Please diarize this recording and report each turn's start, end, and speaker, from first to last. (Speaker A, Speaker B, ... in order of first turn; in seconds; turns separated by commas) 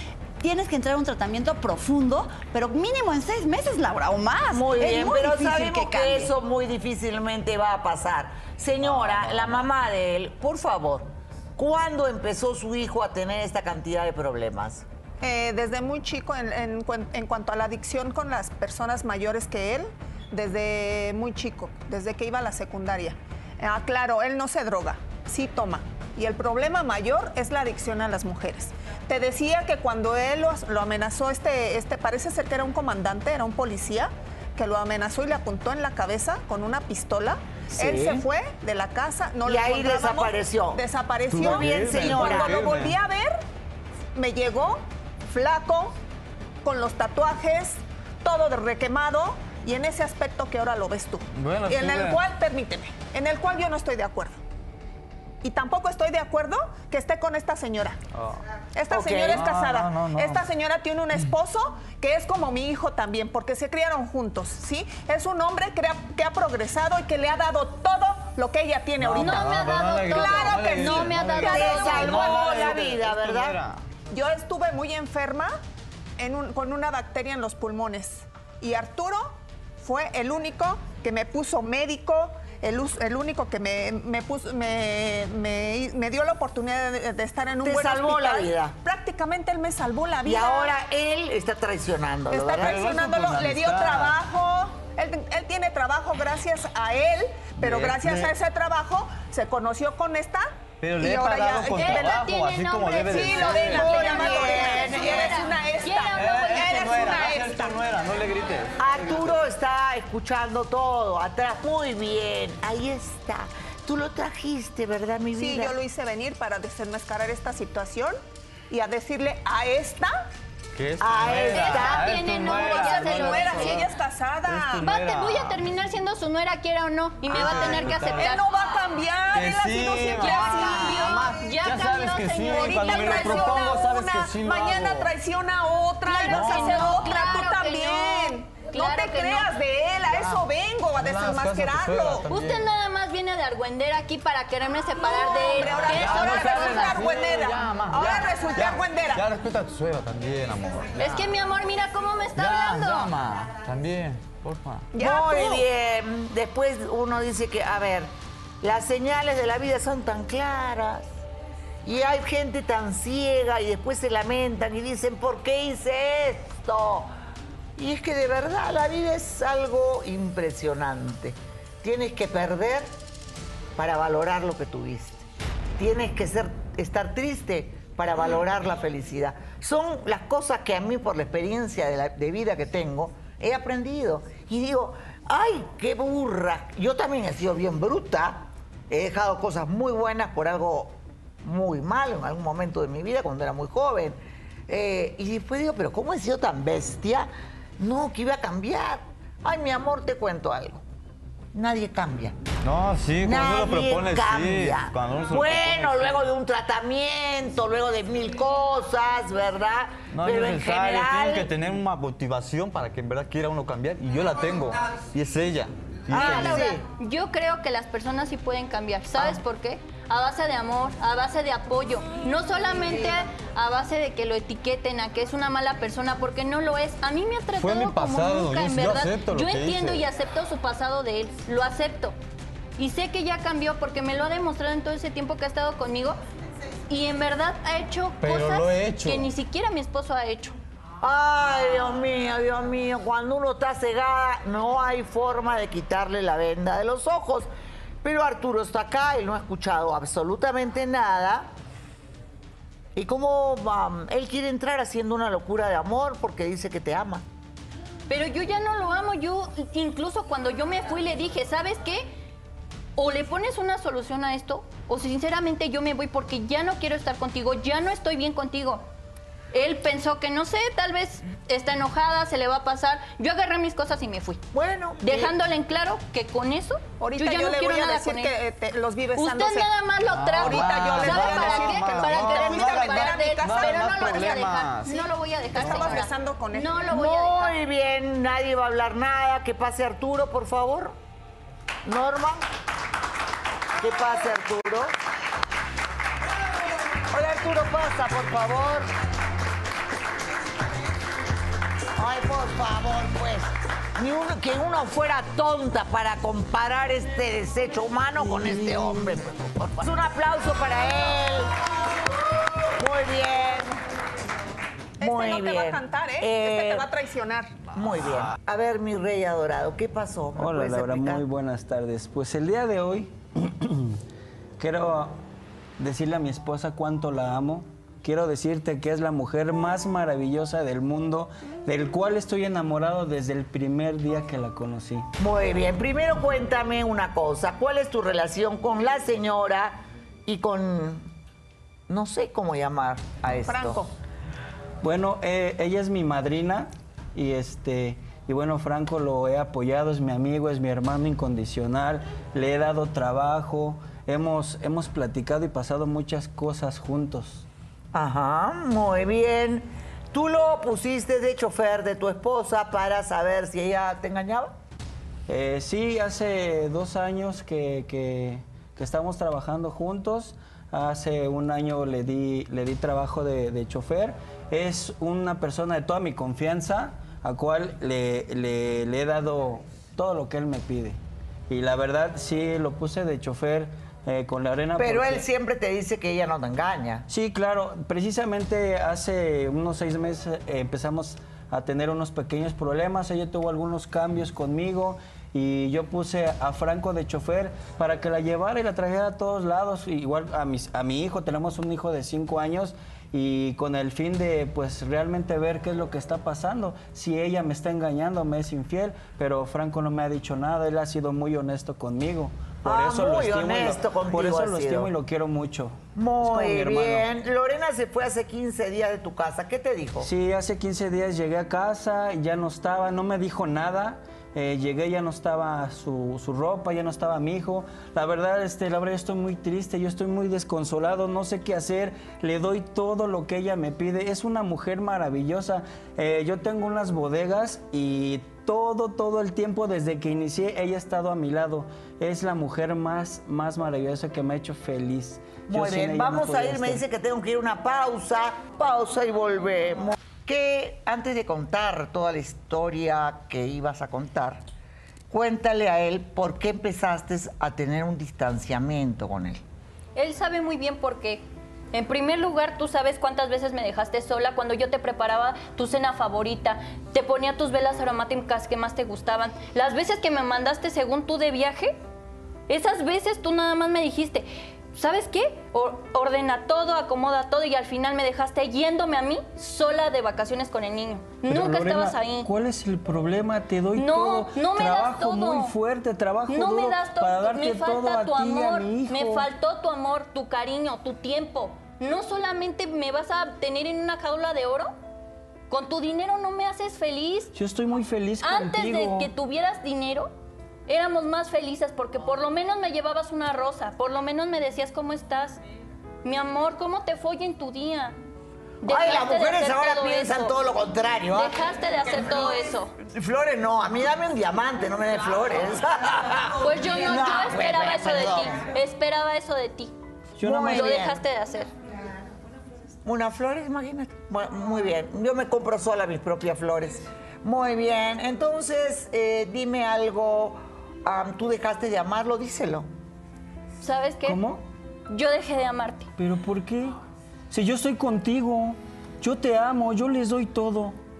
Speaker A: 0.4-6.3, Speaker B: 4.5-14.8, Speaker C: 9.1-9.5, Speaker D: 15.2-43.4, Speaker E: 37.8-38.2, Speaker B: 39.5-40.8, Speaker C: 41.3-43.0, Speaker B: 41.4-42.6, Speaker D: 44.1-46.0, Speaker D: 46.6-54.4, Speaker C: 51.4-52.2, Speaker D: 55.4-58.0, Speaker D: 58.8-72.8, Speaker B: 58.9-59.4, Speaker C: 59.2-60.4, Speaker C: 69.0-73.8, Speaker F: 69.2-72.2, Speaker B: 71.4-73.6, Speaker D: 74.1-75.6, Speaker D: 76.2-90.7, Speaker B: 87.6-88.8, Speaker B: 90.2-92.8, Speaker D: 92.3-102.3, Speaker C: 92.6-94.2, Speaker C: 97.6-98.3, Speaker C: 100.8-104.4, Speaker F: 101.8-106.9, Speaker D: 103.1-107.8, Speaker B: 103.6-105.4, Speaker C: 106.0-109.4, Speaker B: 108.8-115.8, Speaker D: 115.3-118.2, Speaker D: 118.7-120.3, Speaker C: 120.8-123.9, Speaker B: 121.0-122.1, Speaker F: 121.5-123.8, Speaker D: 122.3-124.8, Speaker C: 124.5-125.7, Speaker F: 124.8-128.7, Speaker C: 127.3-128.4, Speaker D: 127.3-131.3, Speaker C: 129.3-135.1, Speaker F: 130.2-133.6, Speaker D: 132.5-142.3, Speaker F: 136.1-139.5, Speaker C: 136.2-137.3, Speaker C: 140.1-140.4, Speaker C: 141.0-142.7, Speaker F: 142.3-147.0, Speaker D: 145.1-149.2, Speaker C: 145.4-151.3, Speaker F: 151.0-153.1, Speaker C: 152.4-154.9, Speaker D: 154.9-155.7, Speaker B: 155.0-161.1, Speaker B: 161.8-167.1, Speaker B: 167.8-172.9, Speaker B: 173.8-200.8, Speaker B: 201.5-202.4, Speaker C: 202.6-206.2, Speaker B: 203.2-211.5, Speaker C: 210.1-216.8, Speaker B: 216.1-216.8, Speaker F: 216.1-232.2, Speaker C: 227.6-230.1, Speaker F: 232.8-236.2, Speaker F: 236.9-240.6, Speaker C: 238.2-239.3, Speaker B: 241.0-247.5, Speaker B: 248.0-251.5, Speaker B: 253.0-257.2, Speaker F: 258.1-262.1, Speaker F: 263.0-268.9, Speaker F: 269.5-274.4, Speaker B: 274.5-275.3, Speaker F: 275.0-278.3, Speaker D: 277.0-279.7, Speaker F: 279.1-287.6, Speaker C: 280.1-284.9, Speaker D: 280.4-285.0, Speaker D: 285.5-286.8, Speaker C: 285.6-286.0, Speaker B: 286.9-291.0, Speaker B: 291.9-292.5, Speaker B: 293.8-294.9, Speaker B: 297.1-298.9, Speaker B: 302.0-311.5, Speaker B: 312.8-313.7, Speaker B: 315.0-316.9, Speaker D: 315.0-317.5, Speaker B: 317.7-321.2, Speaker E: 320.4-324.0, Speaker E: 324.6-325.2, Speaker E: 325.8-335.1, Speaker B: 335.2-341.1, Speaker B: 341.9-343.8, Speaker D: 343.5-343.9, Speaker E: 344.8-357.5, Speaker B: 357.9-364.5, Speaker E: 365.3-381.0, Speaker E: 381.5-385.3, Speaker B: 384.8-387.1, Speaker E: 387.1-417.1, Speaker B: 412.6-414.9, Speaker B: 415.9-420.1, Speaker E: 420.0-446.8, Speaker B: 445.5-454.4, Speaker B: 455.1-459.4, Speaker F: 460.0-471.8, Speaker F: 472.5-482.3, Speaker E: 481.2-489.3, Speaker F: 483.8-485.5, Speaker F: 486.3-494.7, Speaker F: 495.5-497.3, Speaker E: 497.3-499.1, Speaker F: 498.2-500.1, Speaker F: 500.7-505.4, Speaker F: 506.0-507.9, Speaker F: 508.6-510.4, Speaker B: 508.6-511.3, Speaker F: 511.1-512.7, Speaker B: 512.9-518.4, Speaker F: 516.4-519.7, Speaker E: 520.2-520.8, Speaker B: 520.2-521.0, Speaker F: 520.3-521.5, Speaker B: 522.9-532.7, Speaker F: 533.6-534.2, Speaker E: 534.0-534.4, Speaker F: 534.9-535.9, Speaker E: 536.0-536.8, Speaker E: 537.3-540.8